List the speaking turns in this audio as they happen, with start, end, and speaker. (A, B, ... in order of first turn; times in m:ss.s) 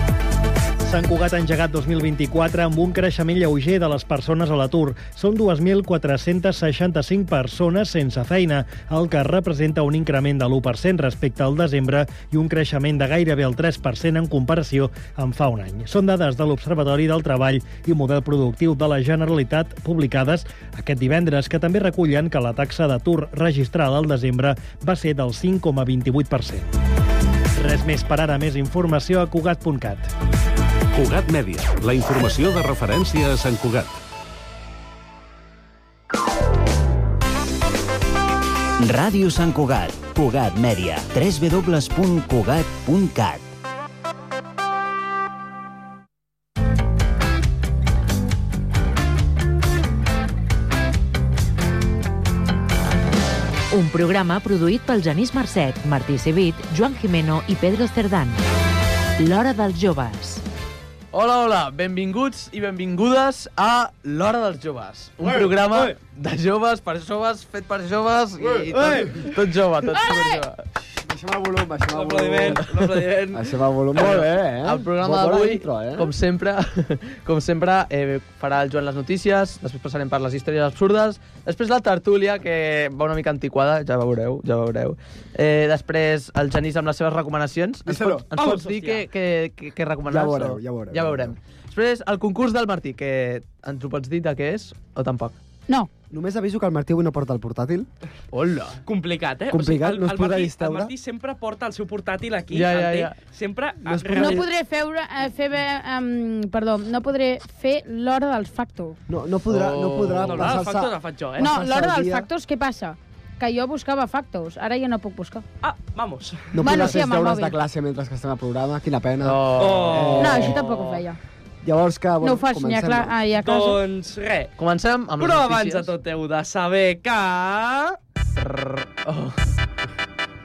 0:00.8-0:26.7 A
0:27.6-0:30.1 A
0:30.9-0:34.0 B
0:38.8-0:43.5 C
0:53.7-0:58.4 D
0:59.2-1:00.4 D
1:01.1-1:10.6 E
1:08.7-1:09.3 F
1:11.0-1:12.6 G
1:11.9-1:13.5 F
1:12.7-1:13.1 E
1:13.3-1:16.1 G
1:14.0-1:35.3 E
1:27.9-1:28.2 G
1:28.3-1:29.1 F
1:30.1-1:31.4 G
1:36.1-1:37.9 G
1:38.3-1:38.8 E
1:38.9-1:44.5 F
1:39.5-1:40.9 G
1:42.5-1:43.2 E
1:43.9-1:44.5 G
1:44.2-1:49.0 H
1:49.1-1:52.3 G
1:49.5-1:50.6 E
1:50.2-1:51.5 F
1:51.4-1:55.4 H
1:55.6-1:56.6 F
1:56.5-2:00.6 G
1:56.6-1:57.6 H
1:59.2-2:00.4 E
1:59.6-2:01.0 F
2:00.2-2:01.2 H
2:01.6-2:03.2 G
2:02.2-2:03.8 H
2:03.4-2:04.6 F
2:04.6-2:05.9 E
2:05.2-2:08.0 F
2:08.3-2:09.5 E